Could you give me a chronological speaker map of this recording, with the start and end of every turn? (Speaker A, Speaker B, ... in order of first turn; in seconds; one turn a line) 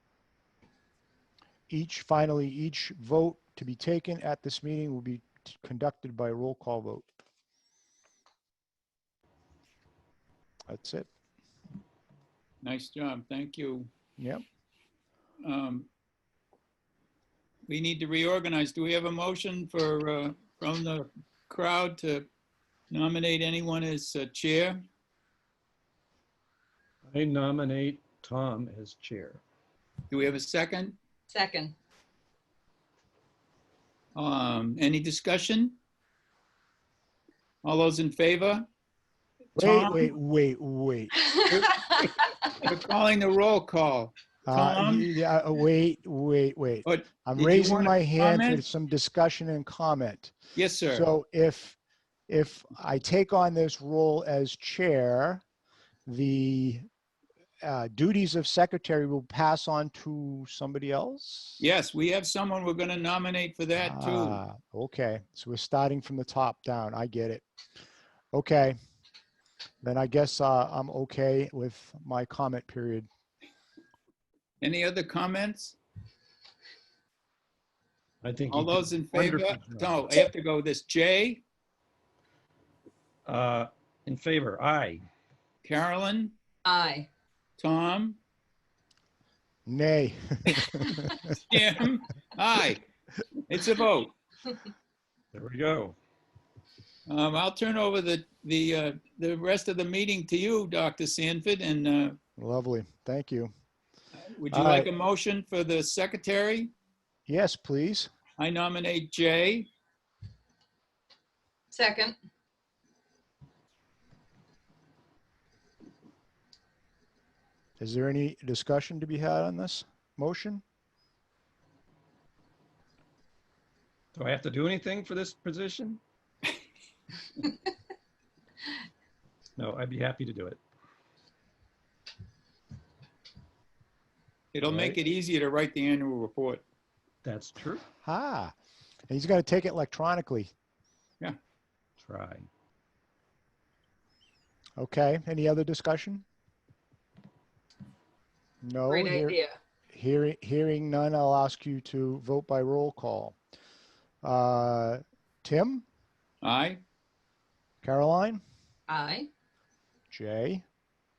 Speaker A: 1.7-7.1
Speaker A: 10.7-11.1
Speaker B: 12.6-13.9
Speaker A: 14.2-14.4
Speaker B: 15.4-15.9
Speaker B: 17.7-22.3
Speaker B: 22.9-24.8
Speaker C: 27.1-29.4
Speaker B: 30.1-31.0
Speaker D: 31.3-31.7
Speaker B: 34.1-35.8
Speaker B: 37.6-38.7
Speaker A: 39.6-41.7
Speaker B: 39.6-40.1
Speaker B: 41.5-45.2
Speaker A: 44.5-50.3
Speaker B: 46.8-48.6
Speaker B: 50.5-51.1
Speaker A: 50.9-51.8
Speaker A: 52.3-55.4
Speaker A: 56.0-56.8
Speaker A: 57.6-61.6
Speaker B: 61.6-64.4
Speaker A: 63.8-67.4
Speaker A: 68.3-68.8
Speaker A: 69.8-73.1
Speaker B: 74.6-75.8
Speaker C: 78.2-80.1
Speaker B: 78.5-81.4
Speaker C: 83.2-85.0
Speaker B: 85.6-86.3
Speaker D: 86.6-87.1
Speaker B: 87.6-88.2
Speaker A: 89.7-91.2
Speaker B: 91.5-92.8
Speaker B: 93.5-94.1
Speaker C: 95.3-96.0
Speaker B: 97.1-102.2
Speaker A: 102.4-103.5
Speaker B: 104.2-106.7
Speaker A: 104.5-104.9
Speaker A: 107.3-108.1
Speaker B: 108.4-109.7
Speaker D: 111.7-112.2
Speaker A: 117.8-120.6
Speaker C: 124.1-126.0
Speaker C: 129.6-130.6
Speaker B: 134.5-136.6
Speaker C: 134.6-135.0
Speaker C: 137.2-137.8
Speaker A: 138.0-138.5
Speaker A: 139.1-140.5
Speaker C: 142.0-142.5
Speaker A: 144.8-146.2
Speaker A: 148.6-149.4
Speaker D: 148.9-149.6
Speaker A: 149.9-153.4
Speaker A: 154.2-155.8
Speaker B: 156.4-156.8
Speaker A: 157.8-158.4
Speaker D: 158.9-159.3
Speaker A: 160.1-160.6